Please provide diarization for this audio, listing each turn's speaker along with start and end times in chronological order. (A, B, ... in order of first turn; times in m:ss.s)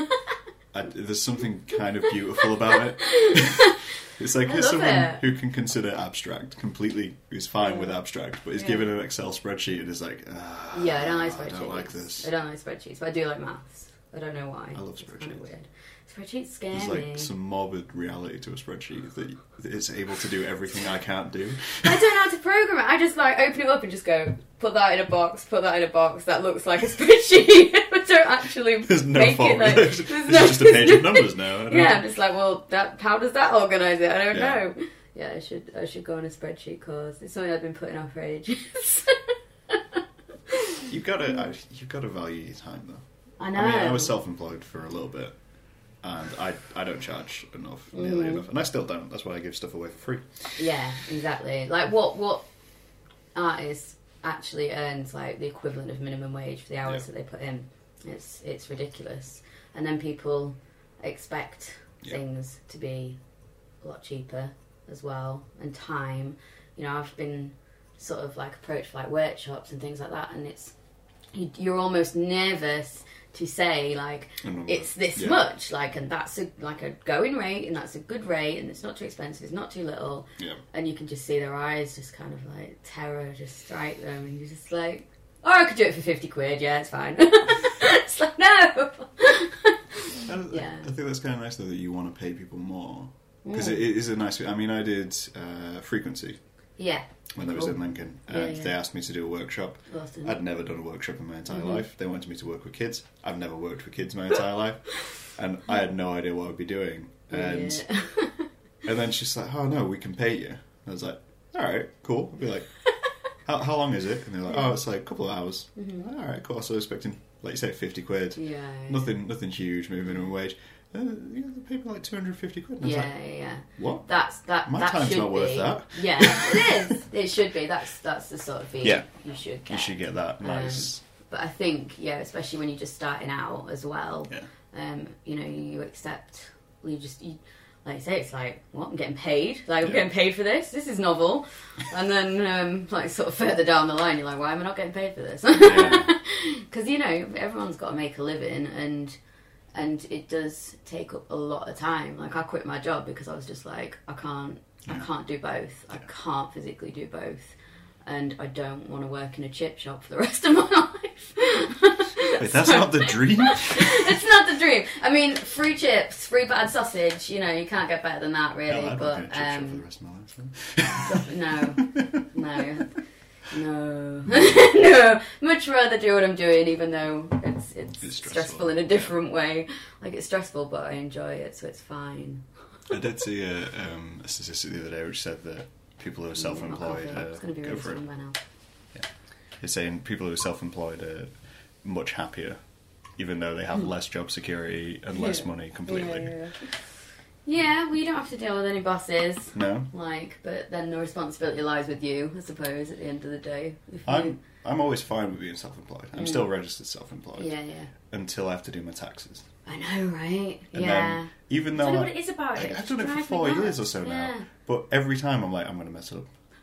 0:00.7-0:12.3 A
0:03.0-0:03.8 B
0:04.4-0:05.2 B
0:07.6-0:07.9 B
0:08.6-0:08.9 B
0:10.7-0:17.3 B
0:14.7-0:15.4 A
0:16.7-0:22.0 A
0:21.8-0:40.9 B
0:28.9-0:32.0 A
0:34.3-0:34.6 A
0:40.9-0:43.0 A
0:43.4-0:44.1 B
0:43.6-0:45.4 A
0:46.0-0:50.3 A
0:47.9-0:48.5 B
0:50.6-0:52.4 B
0:53.4-1:03.2 B
1:03.8-1:10.7 B
1:11.3-1:30.9 B
1:14.4-1:15.4 A
1:30.2-1:36.4 A
1:33.4-1:33.8 B
1:36.8-1:37.8 B
1:37.4-1:47.8 A
1:38.3-1:38.7 B
1:39.9-1:40.4 B
1:41.5-1:41.8 B
1:47.3-1:48.5 B
1:48.8-1:52.7 A
1:53.5-2:03.1 A
1:55.8-1:56.0 B
1:58.4-1:59.1 B
2:02.8-2:29.2 B
2:03.8-2:04.1 A
2:04.6-2:06.9 A
2:08.8-2:09.1 A
2:09.7-2:11.0 A
2:25.6-2:26.1 A
2:29.7-2:49.8 B
2:42.4-2:44.2 A
2:48.7-2:52.1 A
2:50.9-2:52.9 B
2:53.5-3:02.4 B
2:54.3-2:54.7 A
2:58.0-2:59.1 A
3:02.9-3:08.0 A
3:06.4-3:08.4 B
3:09.6-3:11.3 A
3:11.8-3:12.6 A
3:13.2-3:16.4 A
3:15.2-3:16.6 B
3:17.5-3:24.4 B
3:19.5-3:19.9 A
3:24.1-3:27.5 A
3:26.2-3:26.5 B
3:27.4-3:27.9 B
3:28.1-3:29.4 A
3:29.7-3:34.5 B
3:30.7-3:36.3 A